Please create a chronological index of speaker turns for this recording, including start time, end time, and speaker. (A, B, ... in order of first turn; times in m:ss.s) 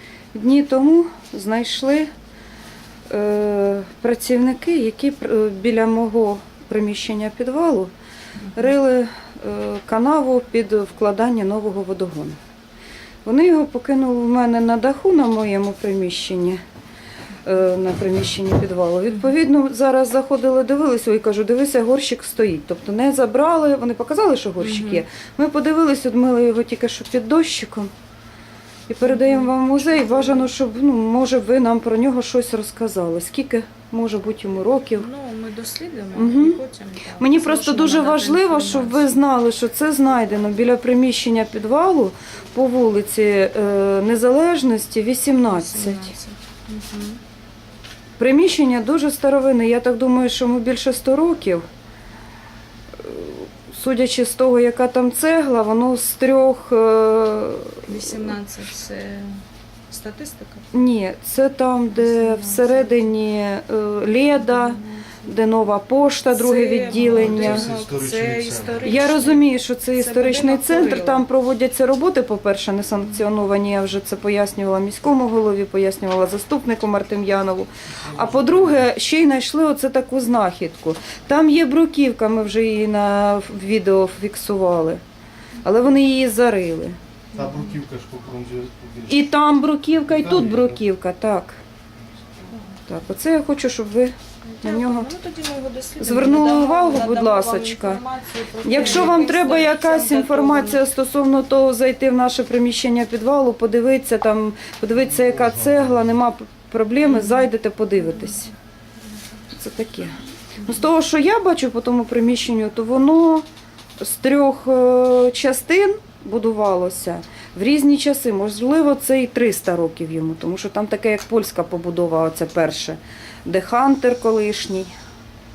0:00.3-0:02.1 A
0:03.1-0:07.9 A
0:08.5-0:12.4 A
0:13.2-0:16.6 A
0:17.4-0:27.9 A
0:24.6-0:25.0 B
0:28.9-0:35.1 A
0:29.0-0:30.5 B
0:34.9-0:39.2 B
0:36.1-0:36.6 A
0:37.2-0:46.1 A
0:45.5-0:47.2 B
0:48.2-0:51.6 A
0:53.0-0:58.4 A
0:57.8-1:00.7 B
1:00.7-1:07.7 A
1:01.9-1:03.0 B
1:04.4-1:05.0 B
1:06.3-1:11.2 B
1:07.0-1:09.0 C
1:08.8-1:25.0 A
1:18.0-1:18.9 C
1:25.6-1:27.0 A
1:27.3-1:29.3 C
1:27.4-1:27.7 B
1:29.1-1:31.6 A
1:30.0-1:30.8 C
1:32.9-1:35.1 A
1:34.4-1:40.8 B
1:36.0-1:38.0 A
1:38.6-1:48.5 A
1:45.4-1:45.8 C
1:47.0-1:47.4 B
1:49.5-1:53.4 A
1:54.0-2:04.9 A